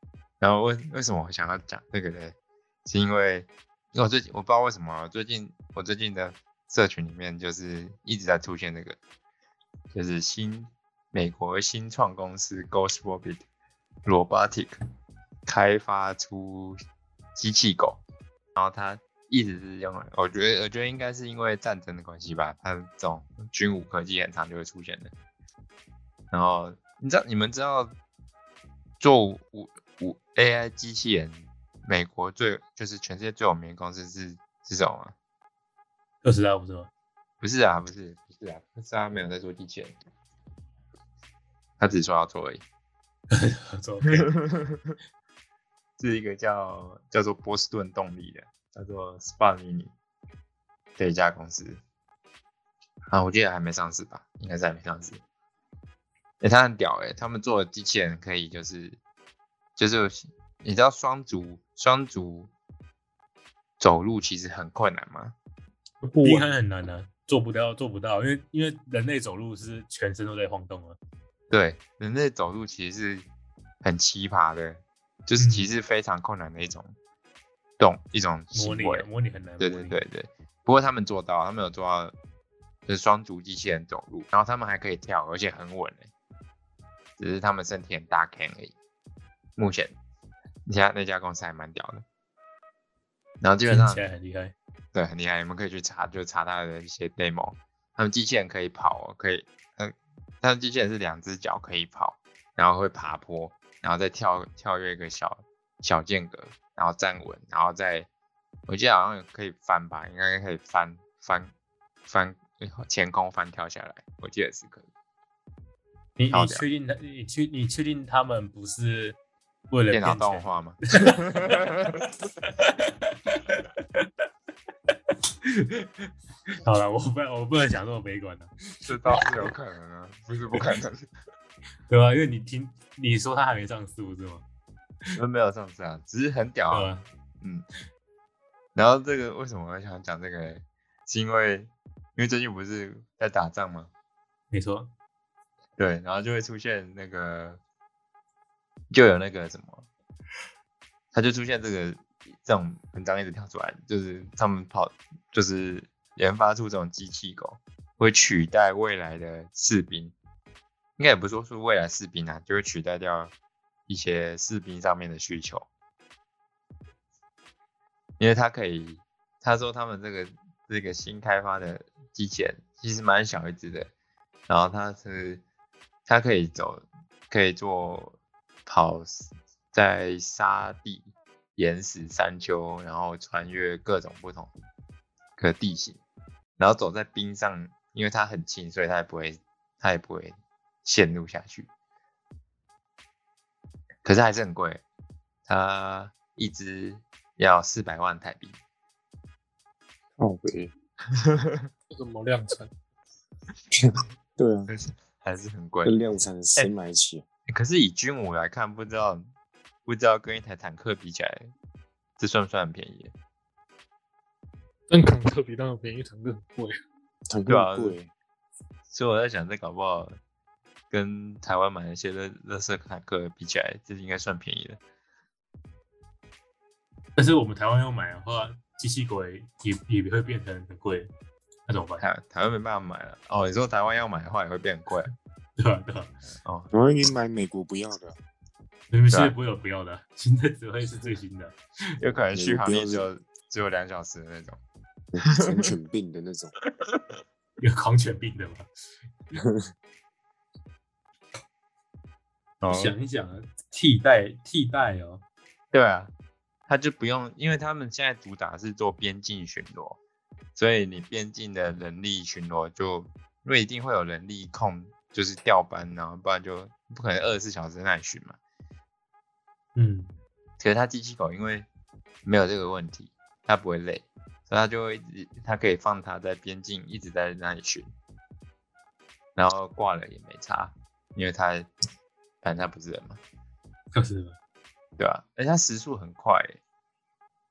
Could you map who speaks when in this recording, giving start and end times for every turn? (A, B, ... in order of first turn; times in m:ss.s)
0:00.4-0:09.0 A
0:09.9-0:13.4 A
0:14.0-0:14.8 A
0:15.5-0:16.8 A
0:17.4-0:18.0 A
0:18.6-0:25.1 A
0:26.3-0:27.9 A
0:29.0-0:35.1 A
0:36.2-0:36.9 B
0:37.4-0:40.0 A
0:41.8-0:42.6 A
0:43.3-0:44.3 B
0:44.1-0:45.0 A
0:46.0-0:49.9 A
0:51.0-0:51.8 A
0:53.1-0:55.2 A
0:56.4-0:59.0 A
0:59.8-1:02.5 A
1:03.8-1:05.4 A
1:06.0-1:06.5 C
1:06.2-1:11.0 B
1:11.5-1:13.3 A
1:13.8-1:17.0 A
1:15.4-1:15.7 B
1:17.8-1:19.1 A
1:18.5-1:20.0 B
1:19.6-1:22.1 A
1:22.9-1:26.1 A
1:27.2-1:28.8 A
1:29.6-1:30.0 A
1:30.7-1:32.0 A
1:33.4-1:34.0 A
1:33.7-1:34.5 B
1:34.9-1:48.1 A
1:48.7-1:51.5 A
1:52.1-1:54.9 A
1:56.2-1:59.2 B
1:56.3-1:56.6 A
1:59.7-2:01.6 B
1:59.9-2:02.0 A
2:02.4-2:04.1 B
2:05.5-2:06.1 B
2:06.6-2:09.5 B
2:08.9-2:11.1 A
2:11.9-2:14.4 B
2:15.2-2:17.6 A
2:16.7-2:17.0 B
2:18.8-2:23.9 A
2:24.5-2:24.9 B
2:25.8-2:27.6 A
2:28.9-2:29.9 A
2:31.1-2:40.1 A
2:41.0-2:43.3 A
2:43.9-2:45.7 A
2:48.2-2:53.9 A
2:54.5-2:55.4 A
2:56.1-3:04.5 A
3:05.4-3:06.0 A
3:06.6-3:11.7 A
3:14.0-3:14.8 A
3:15.5-3:18.6 A
3:20.2-3:20.7 D
3:21.1-3:21.7 A
3:21.9-3:22.7 C
3:23.7-3:24.7 D
3:24.7-3:26.0 A
3:25.8-3:27.2 D
3:27.5-3:29.3 A
3:29.9-3:31.5 A
3:32.2-3:33.1 A
3:34.9-3:36.8 C
3:37.3-3:38.1 D
3:37.5-3:38.0 A
3:38.9-3:40.2 A
3:40.9-3:44.8 A
3:47.2-3:51.1 B
3:51.7-3:52.0 B
3:52.0-3:55.1 A
3:55.6-3:56.1 B
3:56.4-3:56.7 A
3:56.7-3:58.2 D
3:58.9-4:01.6 B
3:59.1-3:59.4 A
4:02.0-4:04.6 A
4:02.4-4:03.1 D
4:05.1-4:06.5 D
4:05.4-4:05.7 A
4:06.8-4:07.1 A
4:07.6-4:08.7 B
4:12.6-4:13.0 A
4:12.7-4:15.2 B
4:15.7-4:16.1 A
4:16.7-4:20.0 A
4:20.6-4:28.4 A
4:29.8-4:30.2 B
4:30.6-4:31.7 A
4:32.2-4:37.9 A
4:39.4-4:41.7 A
4:42.4-4:43.2 A
4:43.9-4:44.4 B
4:45.0-4:46.6 A